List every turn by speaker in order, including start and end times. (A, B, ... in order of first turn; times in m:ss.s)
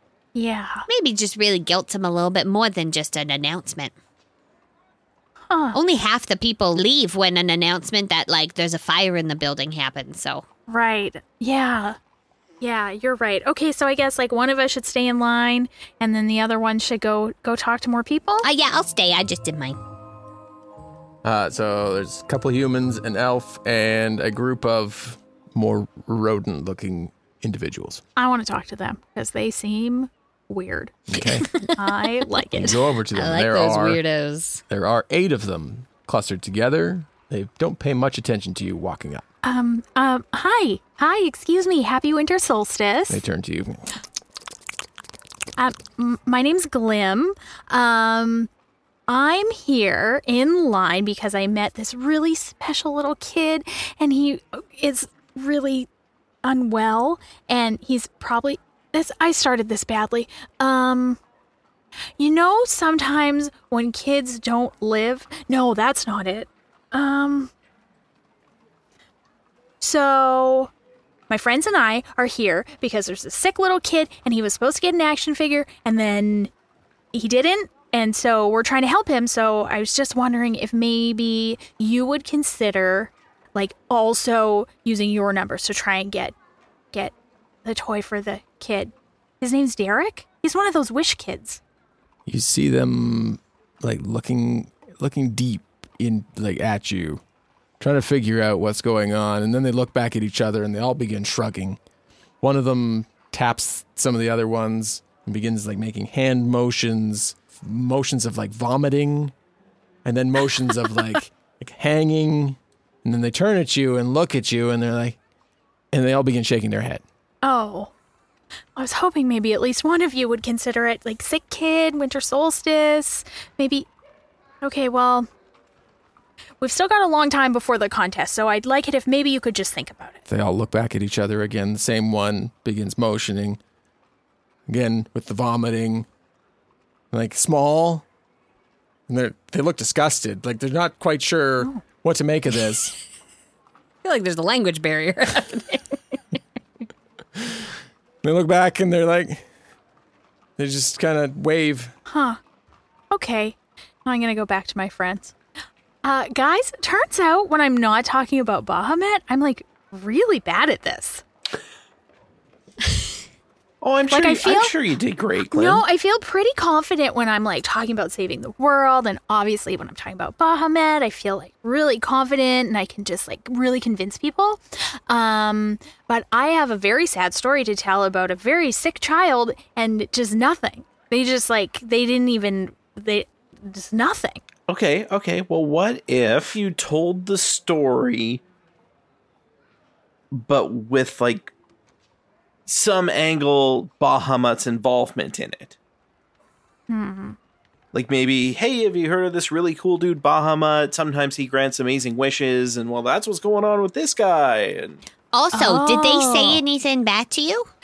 0:00.4-0:00.8 A
0:00.9-0:03.9 B
0:05.5-0:05.8 A
0:05.7-0:10.4 B
0:10.7-0:12.0 A
0:12.6-0:18.4 A
0:18.4-0:19.8 B
0:21.2-0:28.0 C
0:28.2-0:31.0 A
0:31.1-0:31.5 C
0:31.8-0:32.8 A
0:32.5-0:34.0 C
0:33.1-0:34.6 B
0:34.7-0:39.2 C
0:39.4-0:43.2 A
0:43.1-0:43.9 C
0:45.6-0:48.5 A
0:49.1-0:55.9 A
0:56.4-1:01.2 A
1:02.2-1:07.5 A
1:09.8-1:10.7 A
1:11.3-1:16.5 A
1:17.1-1:26.4 A
1:27.6-1:31.6 A
1:32.3-1:37.2 C
1:37.8-1:41.8 C
1:42.4-1:49.3 C
1:50.0-1:55.2 C
1:55.9-1:57.0 C
1:57.4-1:57.9 A
1:58.8-2:03.9 A
2:04.6-2:05.3 A
2:06.6-2:10.2 A
2:10.3-2:13.6 C
2:14.7-2:16.1 C
2:17.1-2:18.0 C
2:19.1-2:22.9 C
2:24.0-2:26.0 B
2:27.4-2:27.7 C
2:28.2-2:29.4 C
2:30.6-2:31.9 C
2:32.1-2:32.4 A
2:33.1-2:35.4 A
2:36.0-2:41.2 A
2:43.8-2:45.8 D
2:44.1-2:44.7 A
2:45.4-3:04.4 A
3:04.7-3:08.4 D
3:10.3-3:11.5 D
3:12.6-3:15.8 D
3:16.9-3:17.4 A
3:17.9-3:25.0 D
3:25.3-3:27.7 B
3:25.5-3:26.6 A